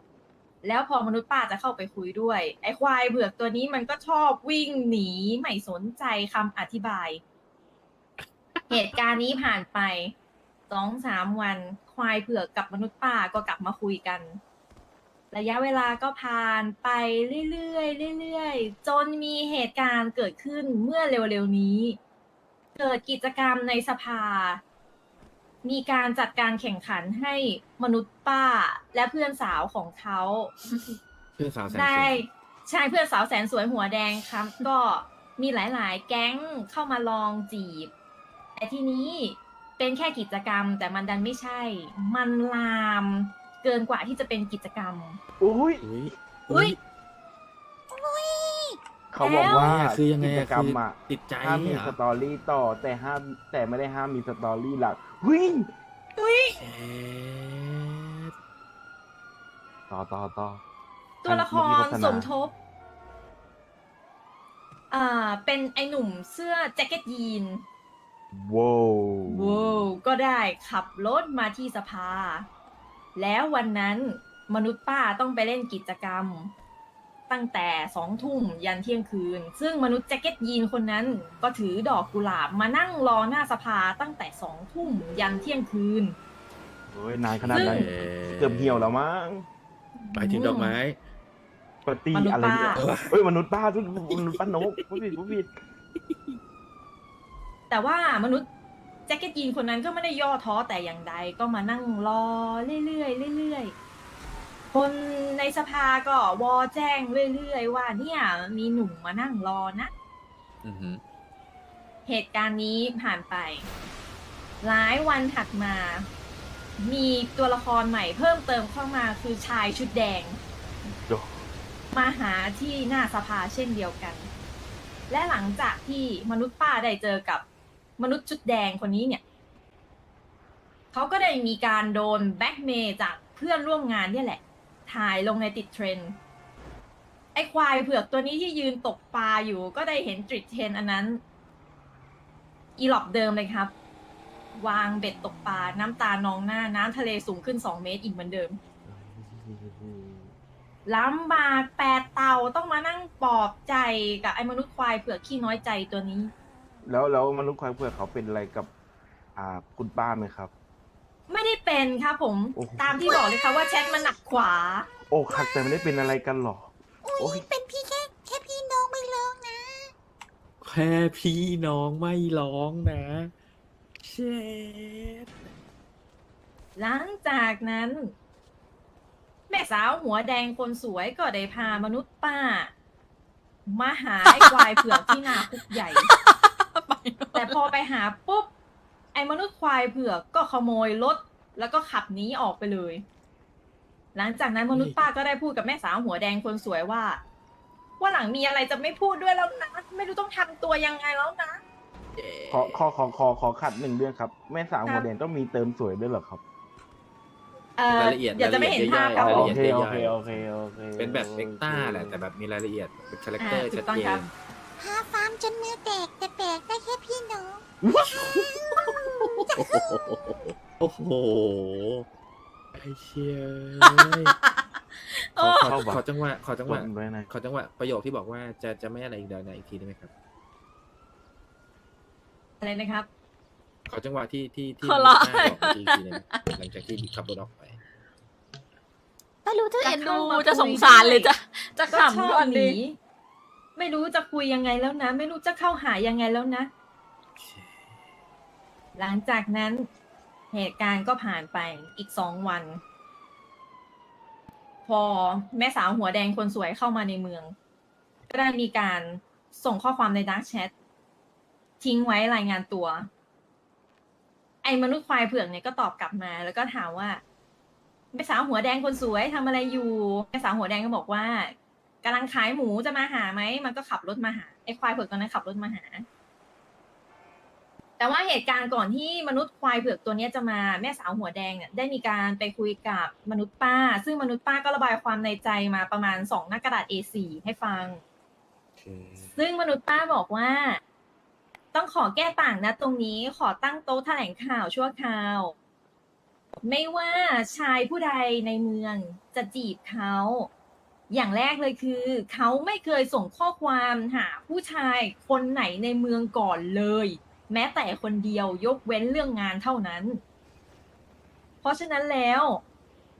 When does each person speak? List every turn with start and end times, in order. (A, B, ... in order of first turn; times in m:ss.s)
0:00.6-0:07.2 A
0:08.7-0:10.1 A
0:10.7-0:14.4 A
0:15.3-0:22.0 A
0:22.8-0:24.6 A
0:25.6-0:30.5 A
0:31.4-0:32.2 B
0:31.7-0:37.9 A
0:38.6-0:45.2 A
0:45.4-0:45.8 C
0:45.8-0:46.8 B
0:46.5-0:46.8 A
0:47.9-0:48.8 D
0:49.1-0:55.7 C
0:49.2-0:49.7 A
0:49.3-0:52.0 B
0:56.2-0:56.6 A
0:56.6-0:58.3 B
0:59.9-1:00.6 C
1:01.2-1:02.5 A
1:01.2-1:02.3 C
1:04.9-1:07.6 A
1:08.3-1:09.9 C
1:09.3-1:12.5 A
1:13.1-1:16.5 A
1:17.3-1:26.2 A
1:26.9-1:29.4 C
1:27.3-1:28.9 B
1:27.5-1:27.9 A
1:30.0-1:30.8 A
1:30.1-1:31.0 B
1:31.8-1:35.6 C
1:32.1-1:32.8 A
1:32.7-1:33.1 B
1:34.1-1:34.9 B
1:36.0-1:36.3 B
1:37.7-1:38.5 A
1:39.1-1:43.7 A
1:44.7-1:49.9 A
1:50.6-1:51.0 B
1:52.1-1:53.7 A
1:54.6-1:56.1 A
1:56.8-2:00.4 A
2:01.0-2:01.4 C
2:01.9-2:04.3 A
2:05.1-2:07.4 A
2:08.0-2:09.2 A
2:10.9-2:16.2 A
2:17.3-2:21.2 A
2:22.8-2:23.7 A
2:24.6-2:28.6 A
2:28.8-2:30.3 C
2:30.8-2:36.3 A
2:36.8-2:38.7 C
2:39.4-2:40.5 C
2:41.3-2:44.9 A
2:42.6-2:43.1 C
2:43.0-2:44.1 D
2:45.1-2:47.4 C
2:45.3-2:45.6 D
2:47.0-2:49.9 D
2:50.6-2:53.3 B
2:54.0-2:55.3 B
2:56.8-2:58.1 A
2:59.5-3:02.7 A
3:03.7-3:06.1 A
3:04.2-3:07.7 E
3:07.3-3:08.5 A
3:09.1-3:13.0 A
3:14.1-3:17.2 A
3:14.7-3:15.0 B
3:18.0-3:21.6 A
3:22.2-3:22.8 B
3:22.5-3:26.4 C
3:27.8-3:29.5 A
3:27.9-3:34.3 B
3:29.2-3:32.2 C
3:33.4-3:34.2 A
3:34.8-3:37.6 D
3:37.8-3:38.3 C
3:38.1-3:42.1 B
3:38.3-3:40.4 D
3:42.7-3:44.3 B
3:43.8-3:45.8 E
3:45.4-3:50.1 B
3:45.6-3:46.0 C
3:46.7-3:47.3 C
3:52.6-3:53.1 A
3:53.9-3:57.8 B
3:54.8-3:56.5 E
3:59.4-4:02.8 E
3:59.8-4:01.3 A
4:01.9-4:03.0 A
4:03.8-4:06.7 A
4:07.4-4:07.7 B
4:09.0-4:09.9 A
4:10.5-4:12.8 A
4:14.8-4:17.5 A
4:18.3-4:20.7 A
4:21.8-4:23.1 A
4:24.6-4:27.2 A
4:28.1-4:36.0 A
4:38.0-4:48.0 A
4:48.8-4:49.4 B
4:49.4-4:50.8 A
4:51.7-4:55.5 A
4:56.6-5:00.5 A
5:01.1-5:10.2 A
5:11.6-5:12.6 A